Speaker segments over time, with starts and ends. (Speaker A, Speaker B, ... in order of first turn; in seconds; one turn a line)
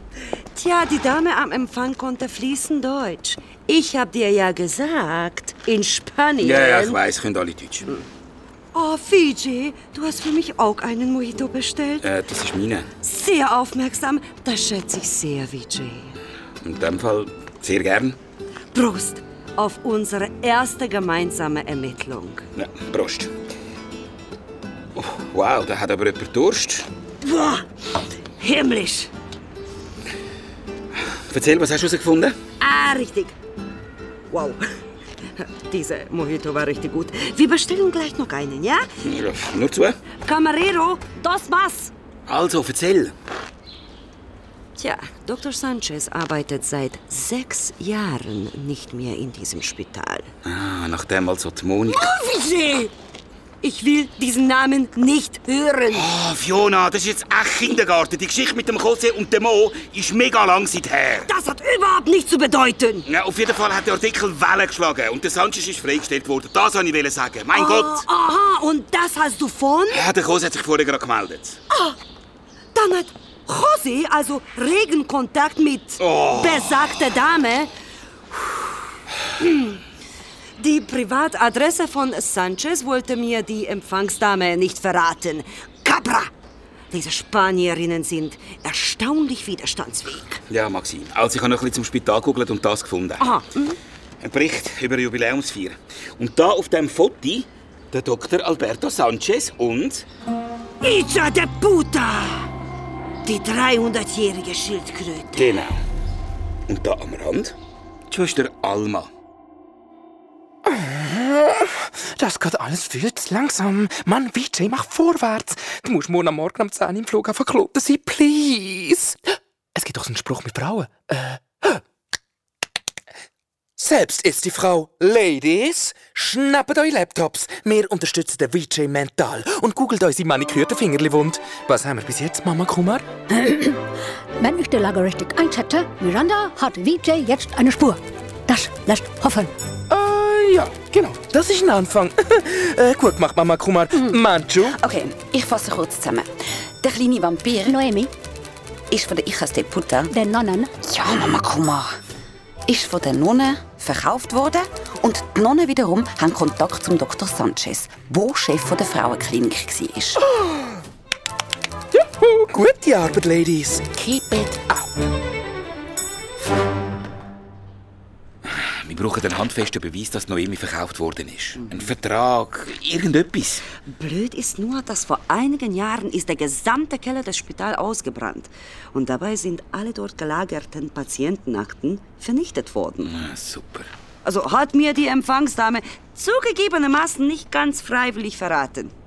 Speaker A: 0.5-7.0
Speaker B: 6.4-7.9
Speaker A: 8.7-12.1
Speaker B: 12.0-12.9
Speaker A: 13.0-16.1
Speaker B: 16.6-18.2
Speaker A: 18.7-22.4
Speaker B: 22.6-23.3
Speaker B: 24.9-26.9
Speaker A: 27.2-27.7
Speaker A: 28.4-29.1
Speaker B: 31.0-32.4
Speaker A: 32.6-33.4
Speaker A: 34.3-34.6
Speaker A: 35.4-38.9
Speaker B: 39.0-40.0
Speaker A: 40.2-41.9
Speaker B: 42.3-43.1
Speaker A: 44.8-50.3
Speaker B: 50.4-52.1
Speaker A: 51.9-52.9
Speaker A: 53.6-56.1
Speaker B: 55.9-61.3
Speaker A: 61.3-63.1
Speaker B: 63.0-68.0
Speaker A: 67.5-70.0
Speaker B: 69.9-71.6
Speaker A: 71.7-72.0
Speaker A: 72.7-77.7
Speaker B: 76.0-76.9
Speaker A: 79.4-79.8
Speaker A: 80.6-86.3
Speaker A: 86.9-90.4
Speaker B: 90.5-93.3
Speaker A: 93.2-93.8
Speaker B: 94.2-100.0
Speaker A: 100.8-102.5
Speaker A: 103.2-105.6
Speaker B: 105.3-105.8
Speaker B: 106.7-107.5
Speaker B: 108.1-109.1
Speaker C: 110.6-121.8
Speaker C: 123.8-133.1
Speaker D: 133.3-133.8
Speaker D: 134.4-139.5
Speaker C: 139.9-144.8
Speaker E: 144.0-147.8
Speaker D: 147.7-148.1
Speaker E: 148.9-150.1
Speaker D: 150.1-150.7
Speaker E: 150.8-152.0
Speaker E: 152.7-160.2
Speaker C: 160.3-160.7
Speaker C: 161.9-164.9
Speaker B: 168.4-173.6
Speaker A: 173.8-183.1
Speaker B: 183.0-183.9
Speaker A: 184.2-188.9